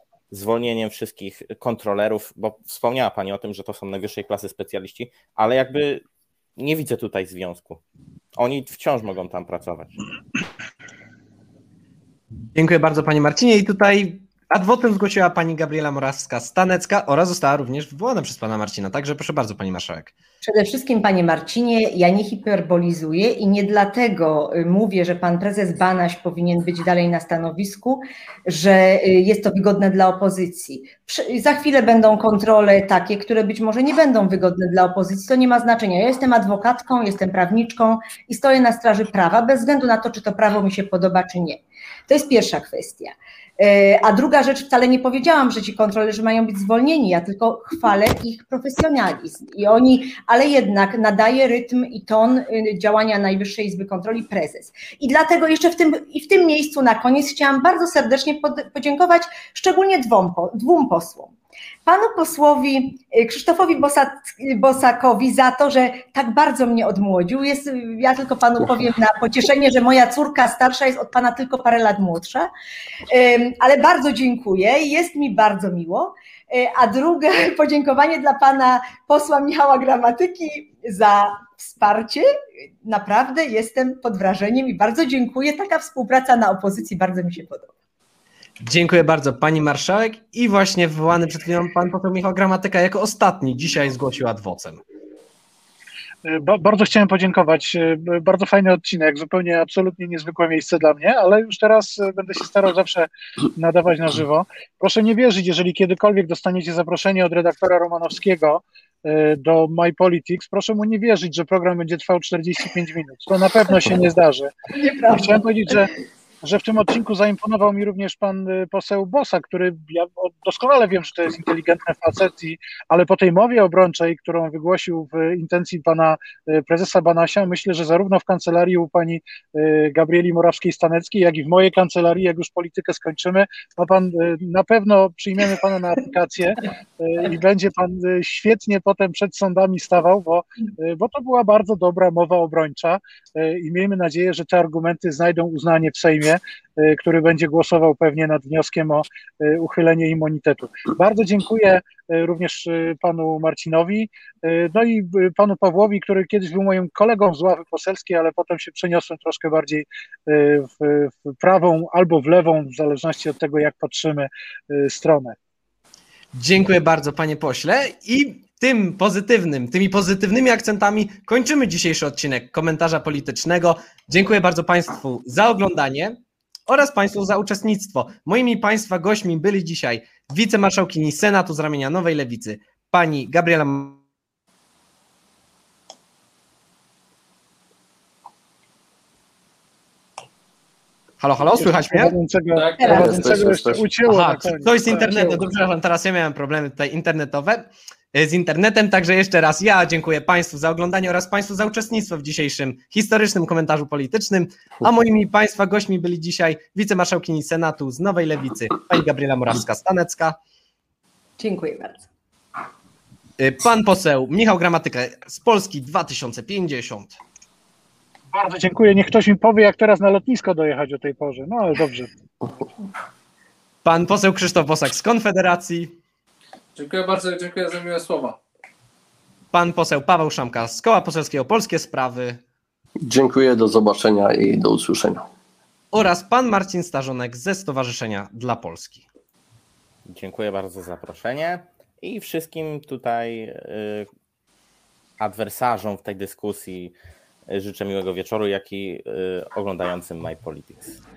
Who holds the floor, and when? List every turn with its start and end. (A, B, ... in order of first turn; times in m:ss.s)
0:00.3-0:06.0 A
0:06.6-0:07.8 A
0:08.4-0:09.9 A
0:12.5-0:20.1 B
0:20.4-1:01.3 C
1:01.9-1:12.5 C
1:13.1-1:22.3 C
1:22.8-1:27.7 C
1:28.6-1:34.8 B
1:36.2-1:54.5 D
1:54.7-1:55.4 C
1:55.1-1:55.9 D
1:56.4-2:45.4 D
2:46.3-3:04.0 B
3:11.2-3:12.2 B
3:11.6-3:15.4 D
3:12.5-3:13.4 E
3:12.8-3:13.1 C
3:12.9-3:13.9 F
3:14.0-3:30.4 B
3:31.4-3:32.1 C
3:33.4-3:37.2 B
3:38.3-3:42.1 D
3:43.8-3:45.9 B
3:46.8-3:48.4 E
3:49.5-3:52.4 B
3:53.0-3:55.3 F
3:55.9-3:59.0 B
4:00.1-4:04.1 A
4:05.2-4:06.9 A
4:07.5-4:11.0 A